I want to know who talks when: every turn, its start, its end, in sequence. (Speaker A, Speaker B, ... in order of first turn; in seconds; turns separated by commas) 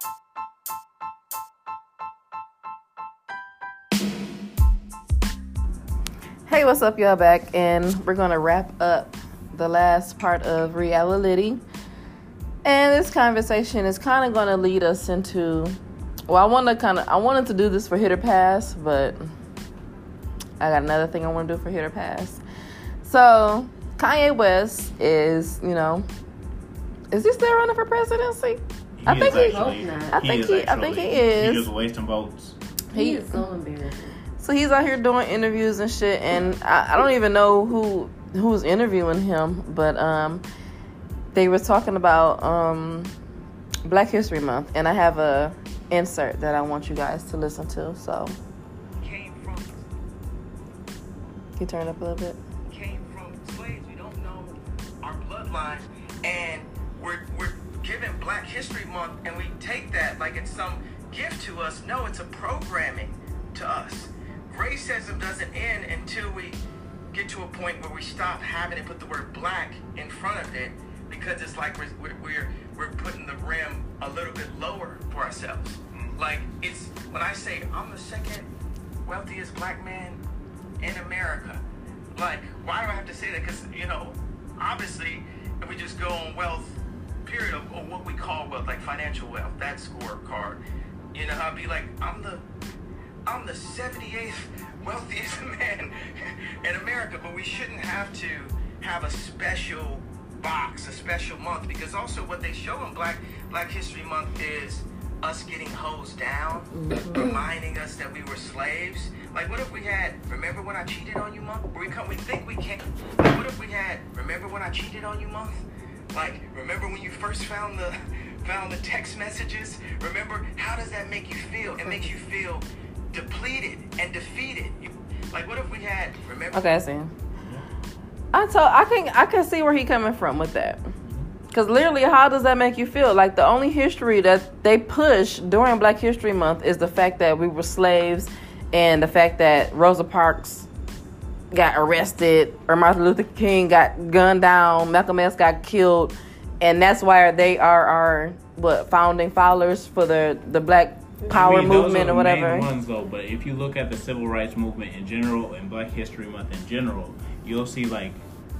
Speaker A: 6.5-11.6, Speaker A: 12.6-15.8, Speaker A: 16.3-19.2, Speaker A: 20.6-22.4, Speaker A: 23.0-26.1, Speaker A: 27.1-31.7, Speaker B: 29.0-32.5, Speaker C: 29.2-30.2, Speaker C: 32.9-34.2, Speaker A: 32.9-33.4, Speaker A: 34.4-40.4, Speaker A: 41.3-43.1, Speaker A: 43.9-48.4, Speaker D: 49.0-49.9, Speaker A: 51.6-52.4, Speaker D: 52.7-66.6, Speaker D: 67.1-78.5, Speaker D: 79.0-80.2, Speaker D: 80.8-81.6, Speaker D: 82.1-90.6, Speaker D: 91.1-92.4, Speaker D: 93.2-126.8, Speaker C: 106.7-107.4, Speaker A: 126.5-127.1, Speaker A: 128.3-130.8, Speaker A: 131.5-140.7, Speaker A: 141.5-152.7, Speaker B: 151.3-158.2